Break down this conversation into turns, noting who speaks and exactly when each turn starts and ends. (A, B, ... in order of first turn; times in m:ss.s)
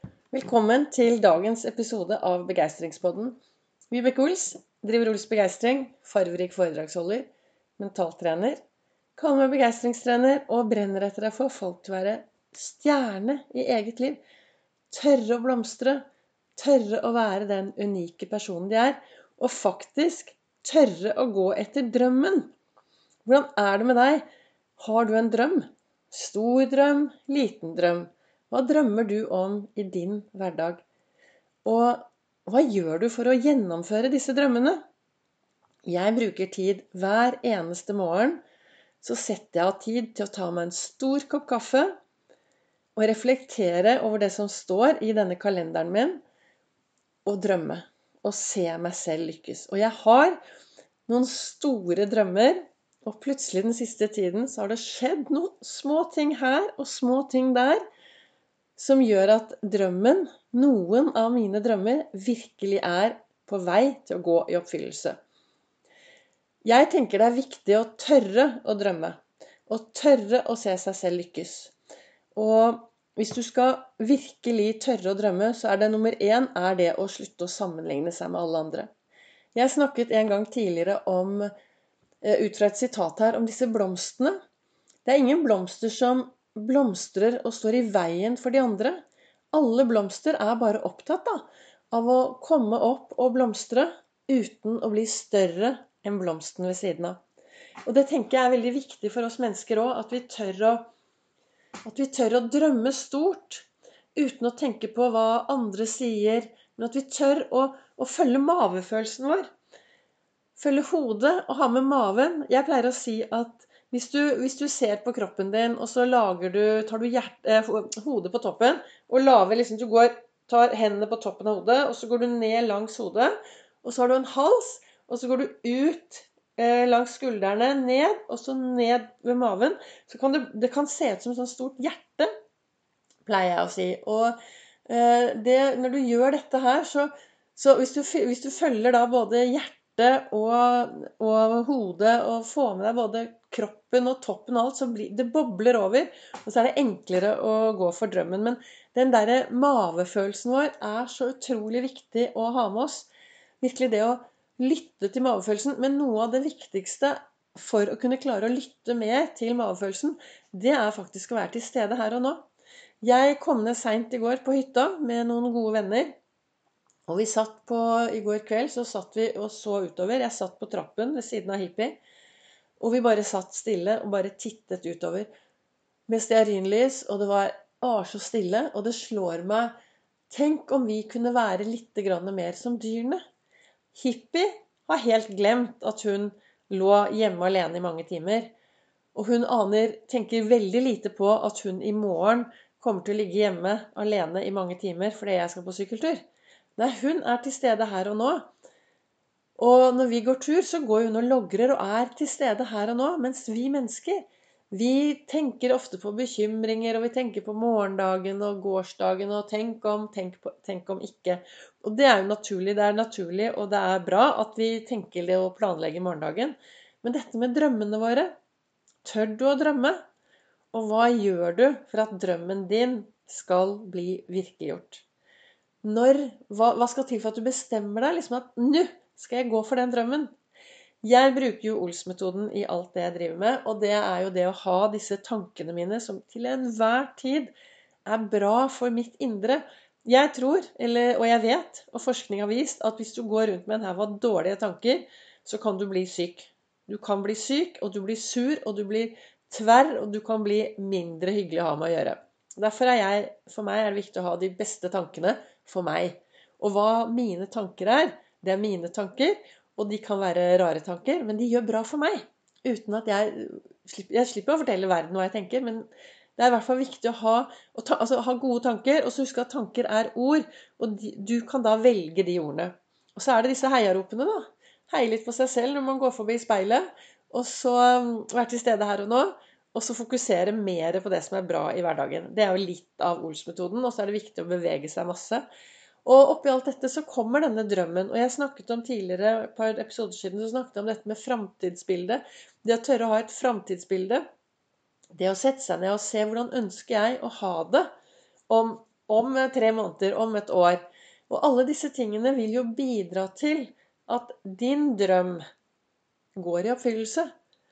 0:00.3-0:03.4 A
0:03.9-0:08.6 A
0:09.2-0:14.2 A
0:14.9-0:16.0 A
0:16.6-0:22.5 A
0:23.2-0:24.2 A
0:24.8-0:30.8 A
0:31.6-0:34.8 A
0:35.8-0:38.4 A
0:39.0-0:42.0 A
0:43.0-0:46.2 A
0:47.2-0:50.4 A
0:51.1-0:57.8 A
0:58.8-1:05.2 A
1:06.6-1:11.7 A
1:12.4-1:18.9 A
1:19.6-1:21.5 A
1:22.2-1:24.4 A
1:25.0-1:29.0 A
1:29.5-1:37.2 A
1:37.9-1:40.9 A
1:41.8-1:49.5 A
1:50.6-2:12.3 A
2:13.3-2:14.4 A
2:14.9-2:33.1 A
2:33.6-2:42.5 A
2:43.0-2:46.2 A
2:47.1-2:52.0 A
2:52.8-2:55.3 A
2:56.1-2:59.7 A
3:00.3-3:03.2 A
3:03.9-3:08.5 A
3:09.2-3:16.2 A
3:16.8-3:18.5 A
3:19.6-3:38.4 A
3:39.0-3:40.0 A
3:40.7-3:45.0 A
3:45.8-3:50.3 A
3:51.0-3:57.5 A
3:58.1-4:45.4 A
4:46.0-4:54.2 A
4:55.2-4:57.9 A
4:58.5-5:05.4 A
5:06.4-5:07.3 A